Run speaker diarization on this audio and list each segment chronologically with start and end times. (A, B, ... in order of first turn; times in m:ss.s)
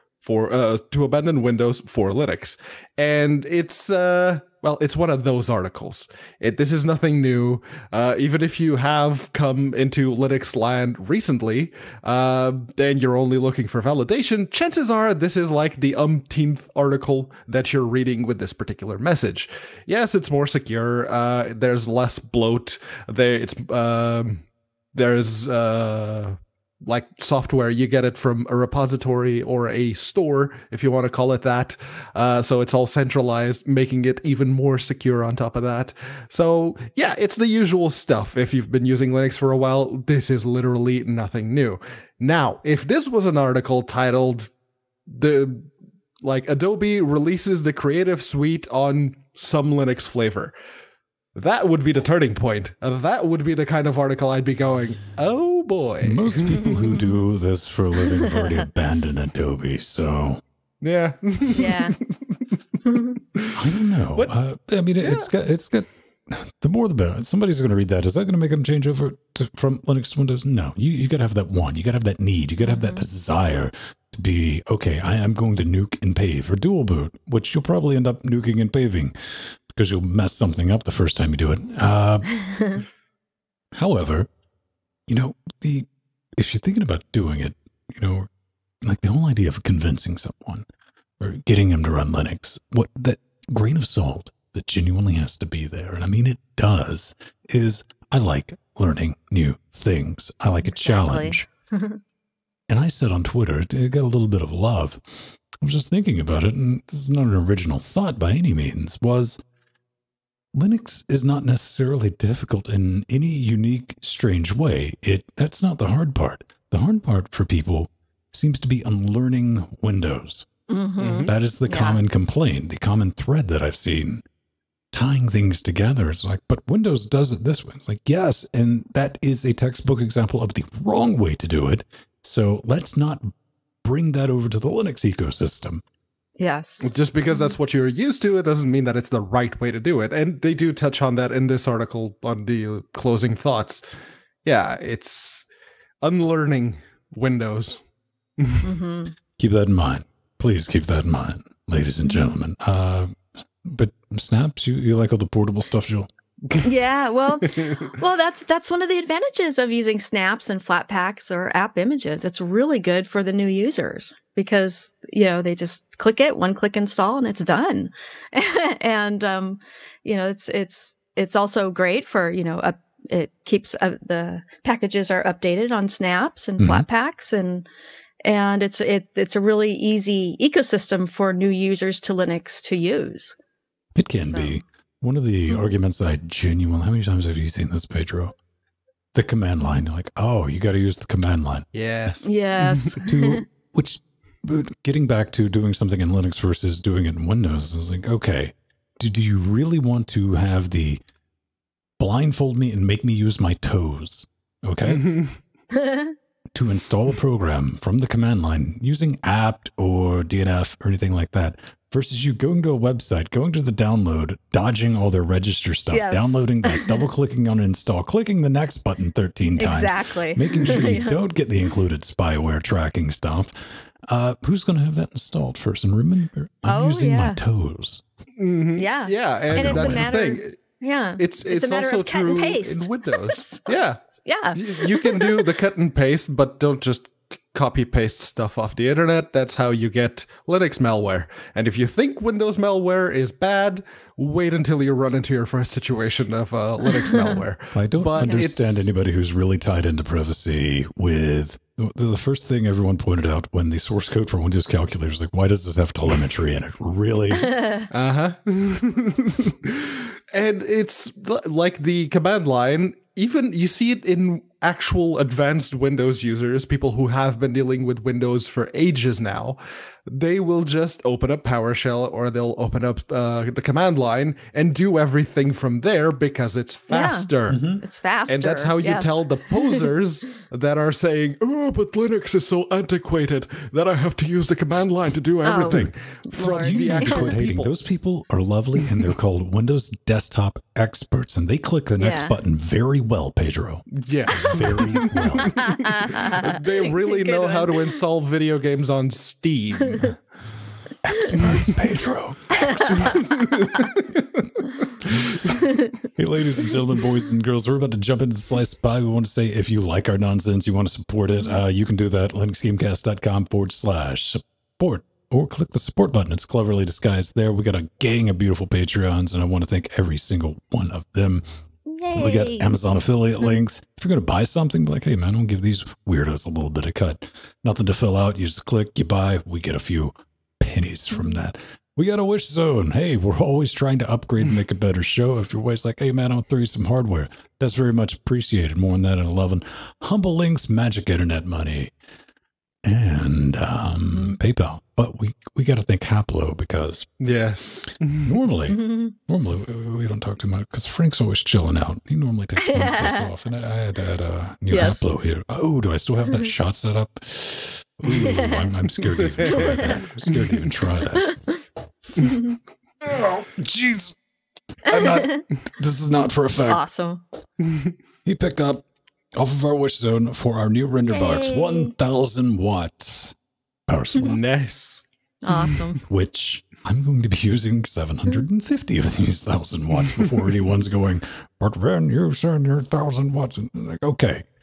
0:00.2-0:44.5 A
0:45.1-0:45.7 A
0:46.2-0:50.5 A
0:51.4-0:56.8 A
0:56.0-1:00.4 B
1:00.8-1:02.5 A
1:01.6-1:02.0 C
1:02.8-1:03.2 C
1:03.6-1:22.4 B
1:12.6-1:13.0 C
1:22.5-1:22.8 C
1:23.7-1:24.3 B
1:25.1-1:28.3 B
1:28.8-1:30.7 B
1:31.2-1:41.5 B
1:40.6-1:42.0 C
1:42.7-1:45.0 B
1:45.6-1:49.4 B
1:50.5-2:00.5 B
2:00.7-2:02.0 C
2:01.0-2:01.3 A
2:01.2-2:04.2 B
2:04.9-2:13.3 B
2:13.8-2:15.8 B
2:16.4-2:17.6 C
2:16.8-2:23.8 A
2:24.4-2:25.5 A
2:26.0-2:27.8 A
2:28.4-2:28.7 A
2:28.6-2:29.2 C
2:29.4-2:36.1 B
2:32.1-2:32.3 C
2:36.6-2:57.6 C
2:56.6-2:56.9 B
2:58.2-3:03.4 C
3:04.0-3:08.4 B
3:04.2-3:04.6 C
3:09.1-3:11.7 B
3:11.7-3:12.9 A
3:12.2-3:13.4 C
3:13.0-3:21.0 B
3:22.0-3:25.1 B
3:24.8-3:25.4 A
3:25.7-3:26.1 C
3:26.5-3:48.0 B
3:35.9-3:37.0 C
3:39.6-3:41.2 C
3:46.7-3:47.4 C
3:48.4-3:50.6 A
3:48.8-3:55.5 C
3:49.5-3:50.1 B
3:51.2-3:54.0 A
3:54.5-4:08.9 A
4:07.7-4:17.5 B
4:17.4-4:17.9 C
4:17.9-4:37.6 A
4:36.9-4:37.3 C
4:37.5-4:37.8 B
4:37.8-4:39.8 C
4:38.3-4:47.7 A
4:45.4-4:47.3 C
4:45.6-4:55.7 B
4:52.0-4:52.3 C
4:54.0-5:00.2 A
4:55.6-4:58.0 C
5:01.1-5:03.3 B
5:01.3-5:01.6 A
5:02.5-5:03.1 C
5:02.9-5:05.6 A
5:05.1-5:05.3 B
5:05.6-5:05.9 C
5:06.2-5:21.4 B
5:21.9-5:22.8 C
5:22.1-5:41.9 B
5:31.1-5:31.4 C
5:42.8-5:47.1 B
5:47.2-5:48.4 A
5:48.2-6:01.4 B
5:48.7-5:49.1 C
5:52.6-5:53.3 C
5:54.7-5:55.1 C
5:58.2-5:58.6 C
5:59.4-6:00.4 A
5:59.6-6:00.0 C
6:02.2-6:02.6 C
6:03.1-6:04.2 B
6:04.8-6:06.8 B
6:04.9-6:05.4 C
6:06.6-6:07.2 C
6:07.6-6:07.9 A
6:08.2-6:08.8 B
6:09.4-6:13.4 B
6:11.1-6:11.9 C
6:13.9-6:14.4 B
6:14.2-6:15.8 A
6:15.4-6:16.0 C
6:16.0-6:24.5 B